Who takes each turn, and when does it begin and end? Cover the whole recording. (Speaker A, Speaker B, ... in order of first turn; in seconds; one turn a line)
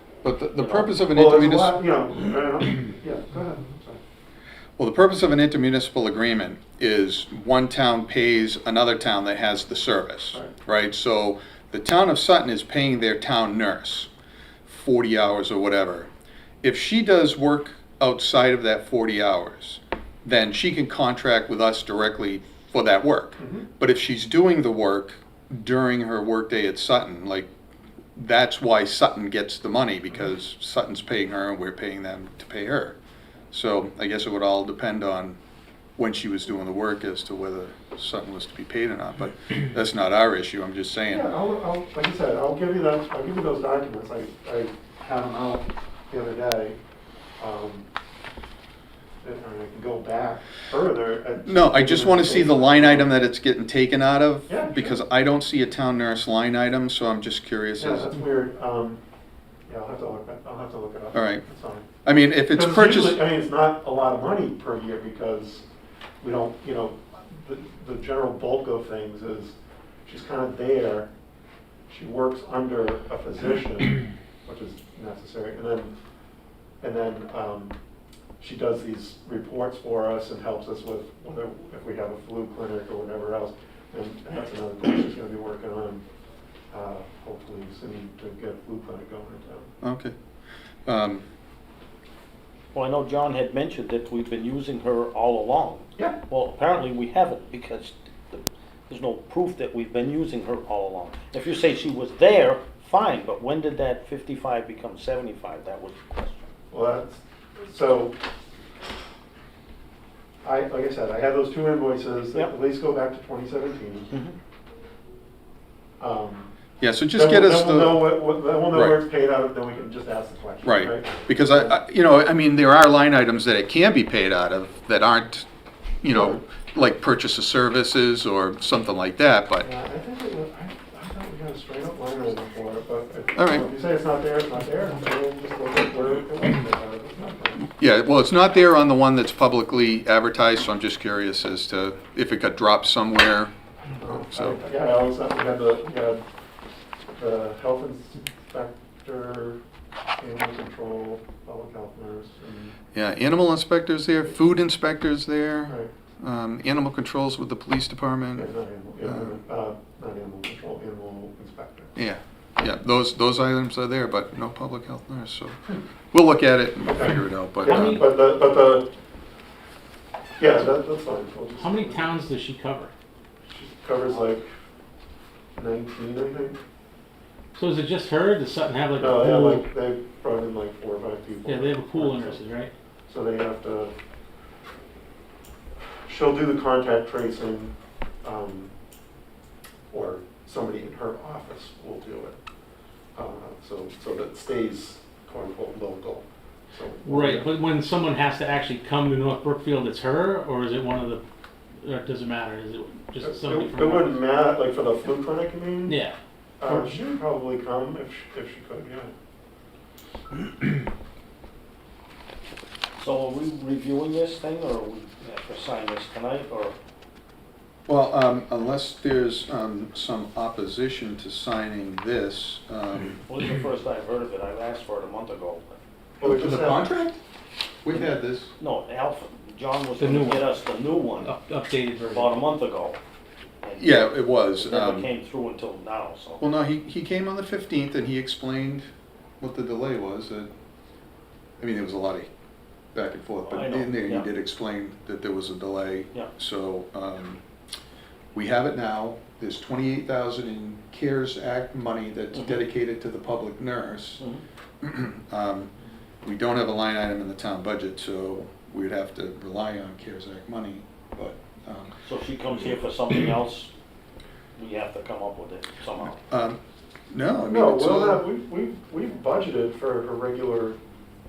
Speaker A: 0.2-1.8
Speaker B: 0.6-0.9
Speaker C: 1.1-4.0
Speaker A: 4.8-14.1
Speaker A: 14.7-16.1
Speaker A: 16.6-27.5
Speaker C: 23.4-23.7
Speaker A: 28.2-33.0
Speaker A: 33.5-35.4
Speaker A: 36.0-41.3
Speaker C: 41.1-46.8
Speaker C: 47.4-47.9
Speaker C: 49.2-53.1
Speaker A: 51.4-58.1
Speaker C: 54.5-55.0
Speaker C: 57.8-59.0
Speaker C: 59.7-61.9
Speaker A: 61.1-61.5
Speaker A: 62.0-63.2
Speaker C: 62.5-65.7
Speaker C: 66.2-69.5
Speaker C: 70.1-71.1
Speaker C: 71.9-75.9
Speaker C: 76.8-77.8
Speaker C: 78.4-86.0
Speaker C: 86.7-89.7
Speaker A: 89.8-90.1
Speaker A: 90.9-91.2
Speaker B: 92.7-106.5
Speaker C: 106.7-108.2
Speaker C: 110.4-114.1
Speaker B: 114.1-114.4
Speaker C: 116.0-116.5
Speaker A: 116.8-118.2
Speaker C: 117.1-121.8
Speaker A: 118.7-119.0
Speaker A: 120.6-125.5
Speaker A: 126.0-129.7
Speaker C: 126.2-126.4
Speaker C: 129.6-137.7
Speaker A: 133.4-133.7
Speaker A: 137.7-143.5
Speaker C: 144.0-146.2
Speaker A: 144.2-144.6
Speaker C: 147.1-149.6
Speaker C: 150.2-152.8
Speaker A: 152.9-158.5
Speaker C: 158.4-161.9
Speaker A: 159.0-159.3
Speaker A: 162.0-165.6
Speaker A: 166.1-168.0
Speaker C: 166.8-168.9
Speaker D: 167.7-168.1
Speaker C: 170.4-172.2
Speaker D: 171.6-172.9
Speaker C: 173.5-174.5
Speaker C: 175.6-176.6
Speaker D: 177.6-179.7
Speaker C: 179.0-182.4
Speaker D: 181.4-182.7
Speaker C: 183.1-183.9
Speaker C: 186.1-188.7
Speaker C: 189.9-192.3
Speaker C: 193.2-197.6
Speaker D: 197.1-201.2
Speaker D: 201.8-204.2
Speaker C: 203.2-206.0
Speaker D: 205.9-206.2
Speaker C: 206.6-209.1
Speaker D: 206.7-206.9
Speaker B: 213.0-216.8
Speaker A: 217.9-223.2
Speaker B: 223.3-225.8
Speaker C: 226.2-226.9
Speaker A: 226.2-227.2
Speaker A: 227.8-228.5
Speaker B: 228.6-231.3
Speaker D: 230.0-230.4
Speaker D: 231.2-232.4
Speaker B: 232.1-233.0
Speaker B: 233.6-236.4
Speaker A: 233.8-235.1
Speaker A: 236.4-238.9
Speaker A: 239.4-240.5
Speaker A: 241.6-242.3
Speaker A: 242.9-247.4
Speaker B: 243.4-244.3
Speaker A: 248.3-254.2
Speaker A: 254.8-255.7
Speaker A: 256.2-261.9
Speaker B: 262.1-263.7
Speaker B: 264.6-266.2
Speaker A: 266.1-266.6
Speaker A: 267.1-268.2
Speaker C: 267.4-270.8